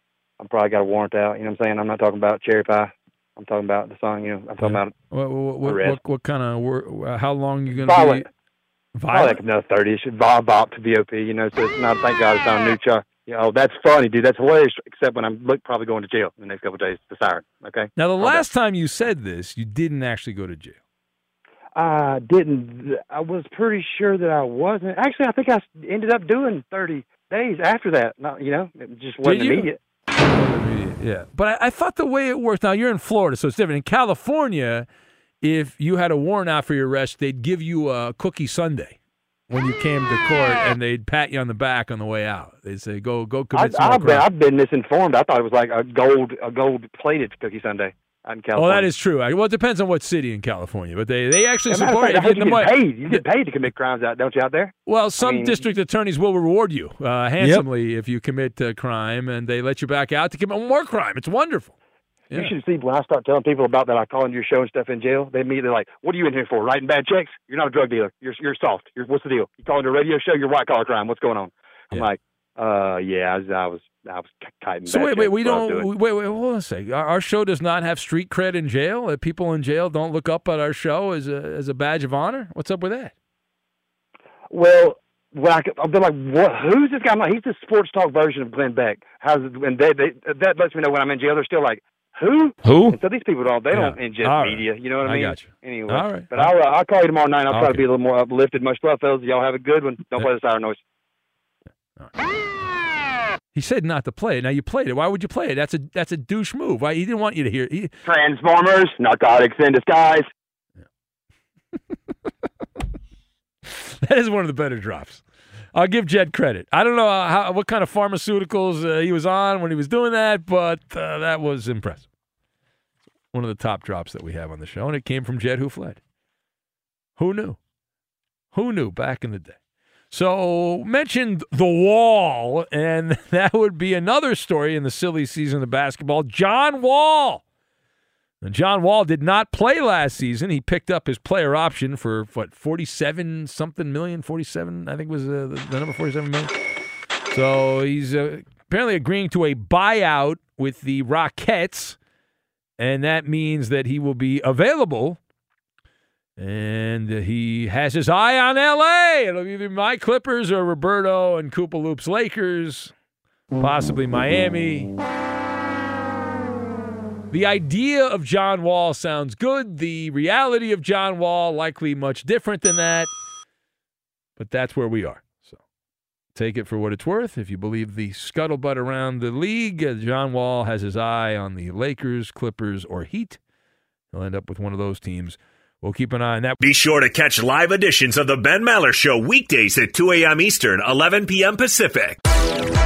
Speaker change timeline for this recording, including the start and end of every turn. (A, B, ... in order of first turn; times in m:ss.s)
0:00.4-0:04.9 A
0:04.6-0:08.3 B
0:05.6-0:06.0 A
0:07.7-0:08.2 A
0:09.0-0:09.4 B
0:09.1-0:18.4 A
0:18.0-0:20.8 B
0:21.8-0:29.8 A
0:29.2-0:34.8 B
0:35.4-0:39.0 B
0:39.5-0:44.3 B
0:43.5-0:48.9 A
0:48.5-0:53.2 B
0:51.7-0:55.6 A
0:54.9-1:01.7 B
1:02.3-1:15.9 A
1:14.9-1:23.1 B
1:24.5-1:40.8 A
1:33.7-1:36.5 B
1:37.5-1:37.8 B
1:43.5-1:47.9 B
1:48.0-1:50.2 A
1:53.6-1:55.2 B
1:55.7-2:02.1 B
2:03.3-2:06.0 B
2:07.2-2:07.6 B
2:08.5-2:09.6 B
2:10.1-2:17.4 B
2:18.4-2:26.5 B
2:27.3-2:32.0 B
2:32.8-2:35.2 B
2:36.4-2:42.9 B
2:43.6-2:44.9 B
2:47.3-2:53.1 B
2:54.4-2:55.5 B
2:56.3-3:03.4 B
3:04.1-3:06.6 B
3:06.6-3:12.2 C